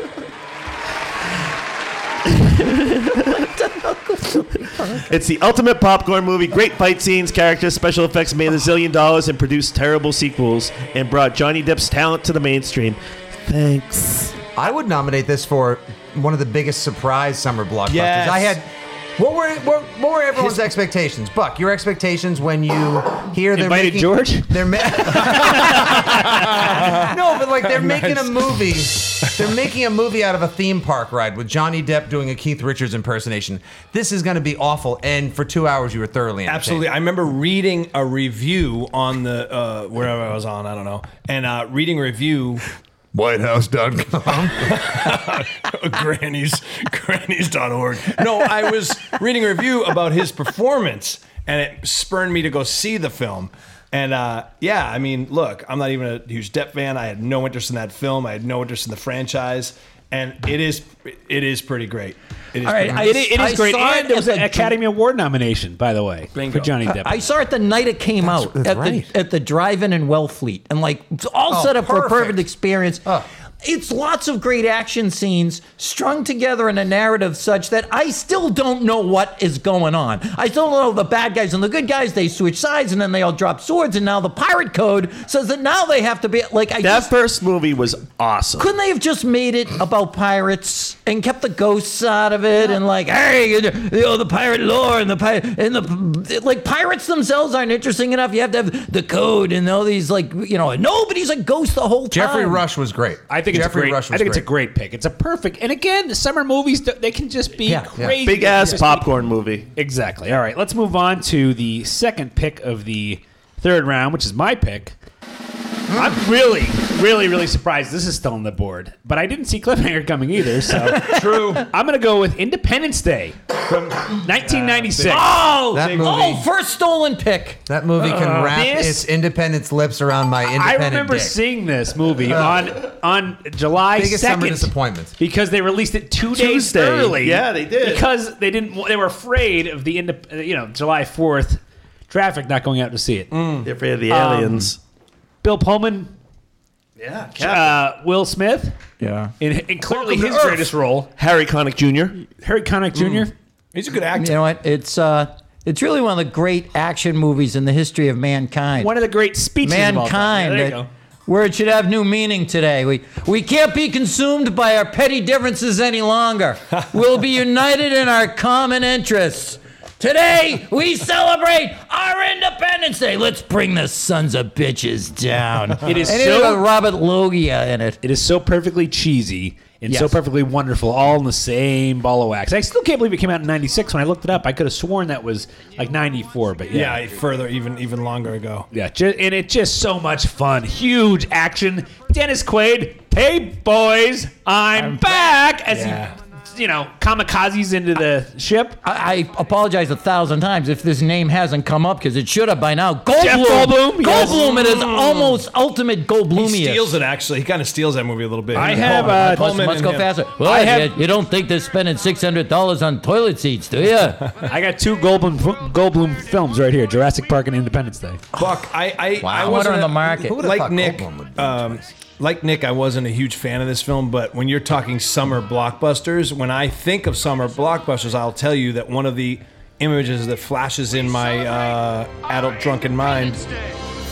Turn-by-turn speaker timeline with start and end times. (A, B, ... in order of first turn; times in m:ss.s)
0:02.3-0:03.4 A
0:03.6-0:05.1 B
0:04.4-0:14.4 A
0:14.6-0:36.9 C
0:17.9-0:18.6 D
0:20.4-0:20.7 D
0:23.5-0:26.6 E
0:26.5-0:28.5 D
0:36.5-0:42.6 D
0:43.1-0:45.1 C
0:44.6-1:03.3 D
1:02.6-1:04.8 B
1:02.9-1:07.2 E
1:06.4-1:06.7 D
1:06.8-1:13.1 B
1:08.2-1:09.1 C
1:11.5-1:12.5 C
1:13.6-1:27.1 B
1:26.8-1:28.7 A
1:28.6-1:42.6 B
1:42.1-1:44.5 C
1:43.3-1:49.1 E
1:47.7-1:48.2 C
1:48.2-1:49.7 A
1:49.7-1:55.0 E
1:55.9-1:56.2 C
1:55.9-2:03.4 E
2:01.0-2:01.7 D
2:03.7-2:06.2 D
2:04.1-2:05.3 E
2:05.1-2:07.6 B
2:05.7-2:06.5 C
2:07.7-2:11.4 C
2:08.0-2:09.1 E
2:10.5-2:23.3 E
2:12.2-2:12.7 C
2:13.9-2:15.2 C
2:16.3-2:18.0 A
2:23.3-2:23.7 D
2:23.6-2:24.8 A
2:24.1-2:24.7 E
2:25.4-2:26.1 E
2:27.0-2:27.8 A
2:27.4-2:28.8 E
2:29.0-2:29.3 B
2:29.4-2:31.1 E
2:30.1-2:32.2 A
2:32.3-2:33.3 E
2:33.0-2:34.4 D
2:34.2-2:39.0 B
2:38.8-2:40.9 E
2:39.6-2:58.0 B
2:55.8-2:56.6 E
2:58.0-3:07.0 E
2:59.9-3:00.2 B
3:06.7-3:08.7 D
3:08.7-3:18.8 E
3:14.8-3:15.3 B
3:15.7-3:16.1 D
3:18.8-3:27.0 B
3:23.2-3:24.4 E
3:24.1-3:25.4 D
3:26.3-3:30.1 D
3:28.5-3:29.5 E
3:28.6-3:34.3 B
3:30.4-3:30.9 E
3:34.5-3:38.2 E
3:38.4-3:53.5 D
3:39.2-3:41.9 C
3:39.3-3:40.4 B